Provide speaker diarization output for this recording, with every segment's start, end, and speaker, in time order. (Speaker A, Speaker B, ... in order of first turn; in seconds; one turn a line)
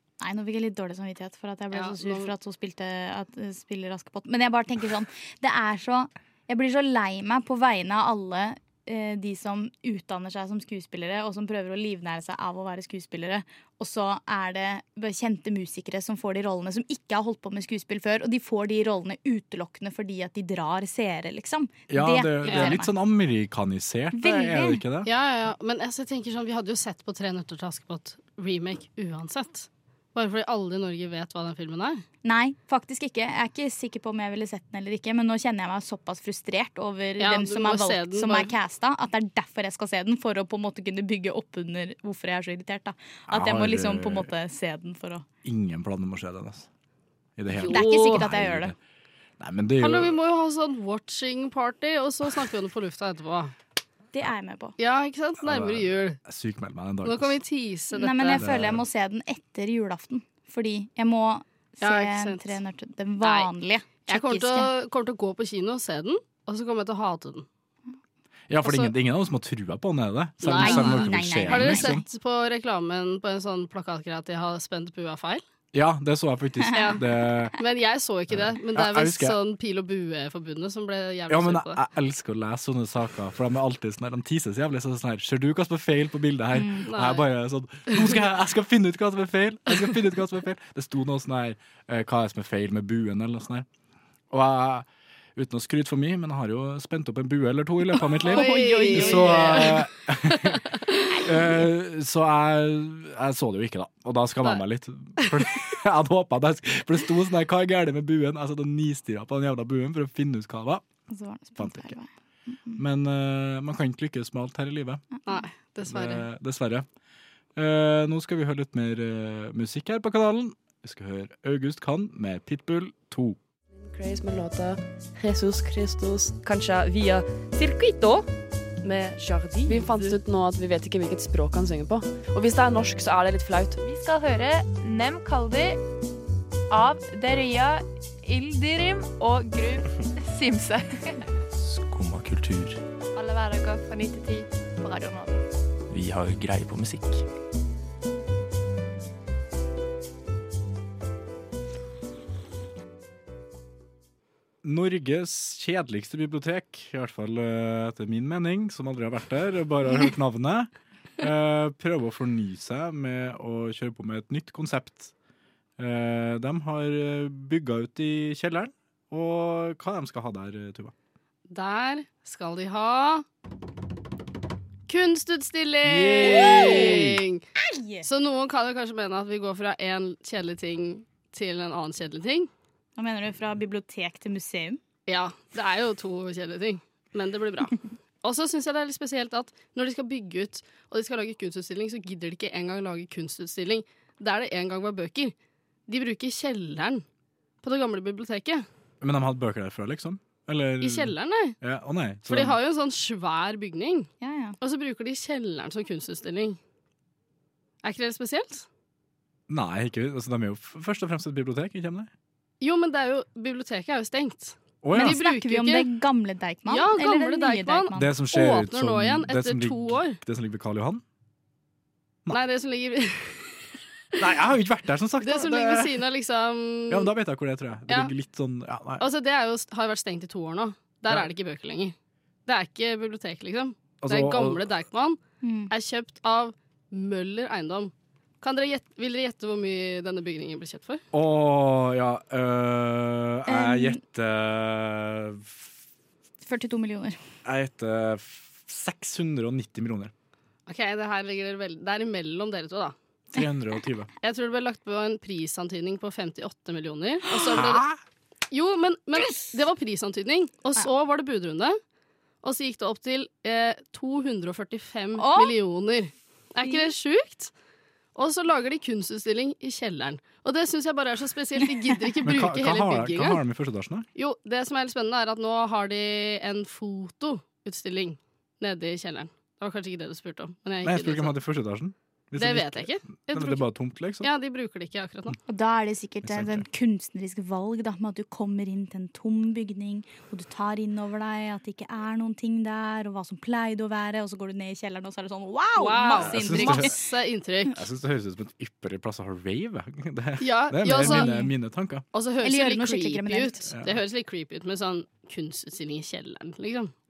Speaker A: 0.2-22.9
Speaker B: 1.7-2.3
Speaker C: 21.9-25.1
Speaker B: 22.5-22.7
Speaker A: 24.1-24.8
Speaker B: 25.1-32.0
Speaker A: 32.2-45.2
Speaker B: 37.2-38.5
Speaker C: 43.3-44.3
Speaker C: 45.4-46.7
Speaker C: 47.4-48.8
Speaker B: 47.5-48.3
Speaker A: 47.7-48.7
Speaker C: 49.4-50.1
Speaker B: 49.8-53.5
Speaker A: 54.1-54.7
Speaker B: 54.8-56.2
Speaker C: 55.4-57.4
Speaker B: 57.0-58.4
Speaker A: 57.9-64.7
Speaker C: 58.3-58.8
Speaker B: 61.8-62.6
Speaker B: 63.2-63.5
Speaker B: 64.0-67.5
Speaker C: 68.5-72.0
Speaker B: 68.7-68.9
Speaker B: 70.4-75.4
Speaker A: 70.6-72.0
Speaker C: 75.7-77.6
Speaker B: 76.7-77.0
Speaker B: 77.6-81.8
Speaker C: 78.3-79.4
Speaker C: 81.3-93.7
Speaker A: 86.5-86.8
Speaker B: 86.9-87.2
Speaker C: 94.3-100.7
Speaker B: 98.2-101.2
Speaker A: 98.3-99.7
Speaker C: 101.2-110.8
Speaker A: 111.1-112.8
Speaker C: 111.6-111.9
Speaker C: 112.8-115.0
Speaker B: 115.3-116.3
Speaker C: 115.8-116.9
Speaker C: 117.6-123.4
Speaker D: 123.7-128.3
Speaker D: 128.8-133.8
Speaker E: 129.7-130.2
Speaker E: 133.8-135.8
Speaker E: 136.7-141.2
Speaker F: 141.6-142.8
Speaker E: 143.2-145.4
Speaker F: 145.9-147.2
Speaker C: 154.6-165.1
Speaker C: 165.8-170.9
Speaker B: 171.5-173.2
Speaker B: 174.9-177.4
Speaker C: 175.8-177.2
Speaker A: 176.3-176.9
Speaker A: 177.6-178.1
Speaker B: 178.1-182.5
Speaker A: 183.0-184.8
Speaker B: 185.1-195.3
Speaker B: 195.9-197.0
Speaker B: 197.6-198.6
Speaker C: 199.0-202.6
Speaker B: 200.8-201.6
Speaker B: 202.3-204.1
Speaker A: 204.2-204.6
Speaker B: 204.6-206.6
Speaker B: 207.8-208.7
Speaker C: 209.5-212.1
Speaker B: 212.6-215.9
Speaker C: 214.8-215.2
Speaker A: 214.9-218.1
Speaker B: 216.7-220.2
Speaker C: 217.9-221.0
Speaker B: 222.3-223.6
Speaker C: 224.2-226.0
Speaker B: 225.2-227.1
Speaker C: 226.9-229.1
Speaker B: 229.0-231.9
Speaker B: 232.5-235.2
Speaker C: 234.0-234.7
Speaker A: 235.4-235.7
Speaker B: 235.7-241.0
Speaker C: 241.1-245.7
Speaker A: 243.5-244.0
Speaker A: 246.4-247.2
Speaker C: 247.4-250.1
Speaker B: 250.7-252.9
Speaker C: 253.3-254.1
Speaker B: 254.2-257.8
Speaker C: 257.5-258.0
Speaker B: 258.5-261.8
Speaker B: 262.4-267.5
Speaker A: 265.2-265.6
Speaker A: 266.6-266.9
Speaker B: 268.1-273.4
Speaker C: 272.2-274.1
Speaker B: 274.2-281.4
Speaker C: 280.8-284.3
Speaker B: 282.4-283.6
Speaker B: 284.2-285.4
Speaker A: 285.5-296.9
Speaker C: 286.2-286.6
Speaker B: 295.8-297.8
Speaker C: 296.2-296.9
Speaker C: 297.7-302.1
Speaker B: 300.4-301.3
Speaker A: 301.0-301.5
Speaker B: 302.1-306.9
Speaker A: 302.4-303.6
Speaker C: 303.7-304.0